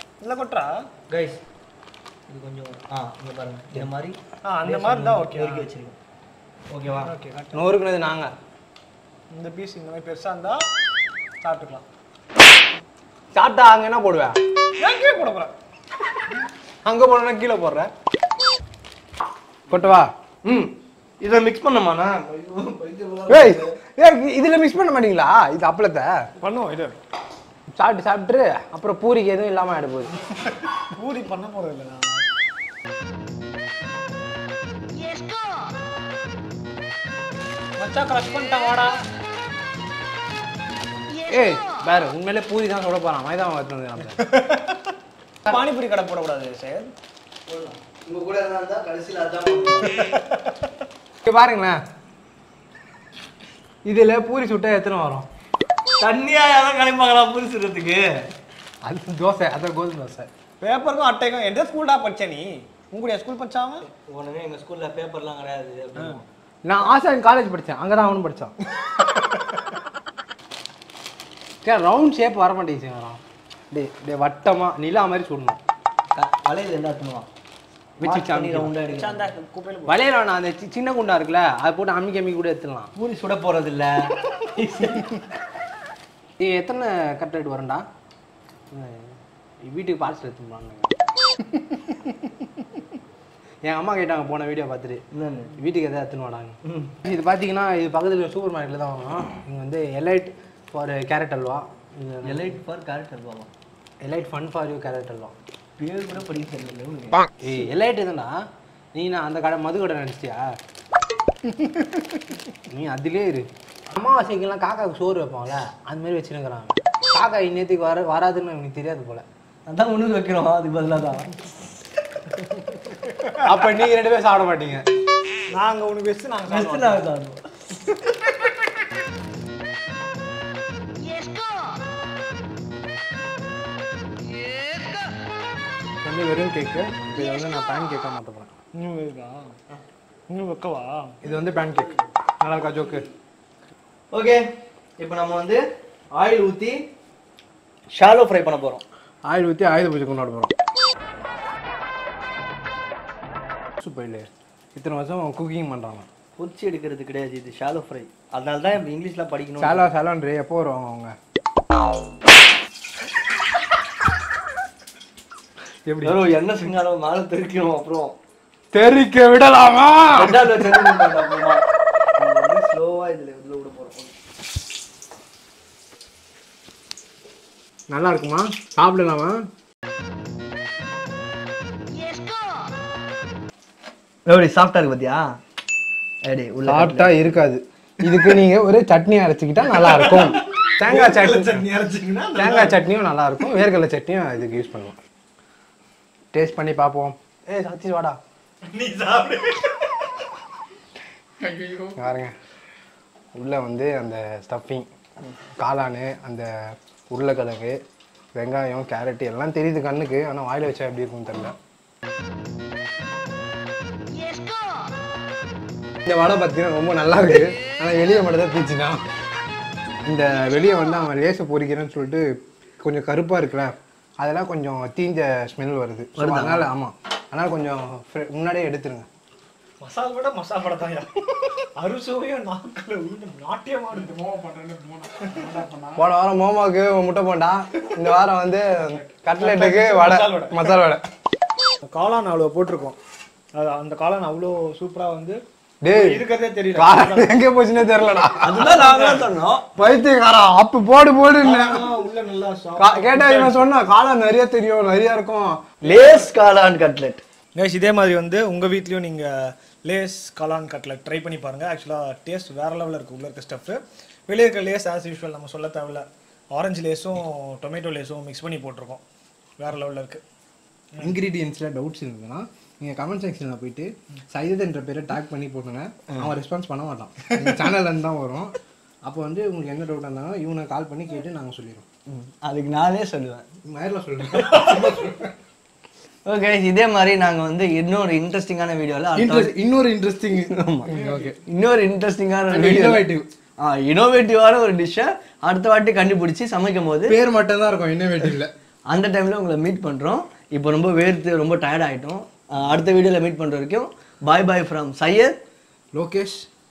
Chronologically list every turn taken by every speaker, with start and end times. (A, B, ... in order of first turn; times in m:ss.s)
0:00.2-0:00.9 A
0:01.1-0:01.4 B
0:02.3-0:06.0 B
0:04.5-0:05.7 A
0:06.7-0:07.1 B
0:07.0-0:07.7 A
0:07.5-0:08.3 C
0:09.3-0:10.6 A
0:11.4-0:11.8 A
0:13.3-0:14.4 C
0:14.8-0:15.5 A
0:16.9-0:17.9 C
0:19.7-0:20.1 C
0:20.4-0:23.8 B
0:23.3-0:26.2 C
0:26.4-0:27.0 A
0:27.7-0:30.2 C
0:30.8-0:32.2 A
0:37.8-0:39.0 A
0:41.3-0:44.2 C
0:44.0-0:44.9 A
0:45.4-0:46.9 A
0:47.5-0:50.0 B
0:49.9-0:50.6 A
0:51.2-0:51.8 C
0:53.8-0:55.3 C
0:56.0-0:58.1 B
0:58.8-1:00.3 C
1:00.6-1:03.9 A
1:03.9-1:06.2 B
1:06.6-1:08.5 C
1:11.6-1:15.6 C
1:16.2-1:17.3 B
1:18.0-1:18.7 C
1:18.0-1:19.3 B
1:18.9-1:20.0 A
1:19.9-1:22.9 C
1:23.0-1:25.2 B
1:26.4-1:27.8 C
1:28.7-1:30.9 C
1:33.6-1:35.0 C
1:35.1-1:35.6 B
1:35.6-1:42.6 C
1:36.6-1:36.9 B
1:42.2-1:43.5 B
1:44.0-1:45.4 C
1:45.8-1:47.3 B
1:47.4-1:48.4 C
1:48.9-1:50.5 C
1:52.7-1:59.2 C
1:59.7-2:01.3 B
2:03.1-2:03.7 A
2:03.4-2:04.8 C
2:05.5-2:07.1 A
2:06.5-2:07.4 B
2:16.0-2:18.5 C
2:18.8-2:19.5 A
2:20.3-2:21.2 A
2:21.2-2:23.1 C
2:24.1-2:24.4 B
2:25.0-2:25.6 B
2:26.1-2:26.8 B
2:27.9-2:28.8 B
2:29.3-2:30.5 C
2:33.8-2:36.1 C
2:36.4-2:39.8 B
2:39.6-2:41.2 C
2:45.9-2:46.2 C
2:46.0-2:48.2 B
2:48.7-2:50.7 C
2:50.1-2:51.6 B
2:52.2-2:54.1 B
2:57.9-2:59.4 C
3:04.3-3:05.2 B
3:06.2-3:07.4 B
3:06.6-3:11.7 C
3:09.7-3:12.8 A
3:12.4-3:15.0 C
3:16.3-3:18.2 C
3:18.6-3:20.1 A
3:21.5-3:21.8 A
3:21.7-3:22.3 C
3:23.3-3:24.8 C
3:25.6-3:26.5 C
3:27.1-3:27.8 C
3:28.4-3:31.6 C
3:36.1-3:39.0 C
3:40.0-3:49.1 C
3:46.2-3:46.7 B
3:49.8-3:51.1 A
3:51.8-3:56.0 A
3:56.0-4:01.0 C
3:59.3-4:00.8 A
4:01.9-4:03.0 A
4:03.6-4:07.3 A
4:05.8-4:06.2 C
4:06.8-4:08.7 C
4:08.4-4:09.6 B
4:08.6-4:09.3 A
4:09.8-4:11.9 C
4:11.4-4:13.6 A
4:12.8-4:15.7 C
4:15.8-4:17.2 B
4:15.9-4:16.3 A
4:17.6-4:29.0 A
4:29.6-4:30.2 A
4:31.0-4:38.5 C
4:37.3-4:37.6 A
4:39.1-4:41.8 C
4:42.1-4:43.5 B
4:43.6-4:45.1 C
4:44.3-4:45.3 B
4:46.2-4:49.5 B
4:49.2-4:51.4 C
4:50.3-4:50.9 B
4:51.4-4:53.1 B
4:52.5-4:53.3 C
4:53.6-4:57.2 B
4:57.1-4:58.5 C
4:58.9-5:05.4 B
5:05.9-5:06.5 C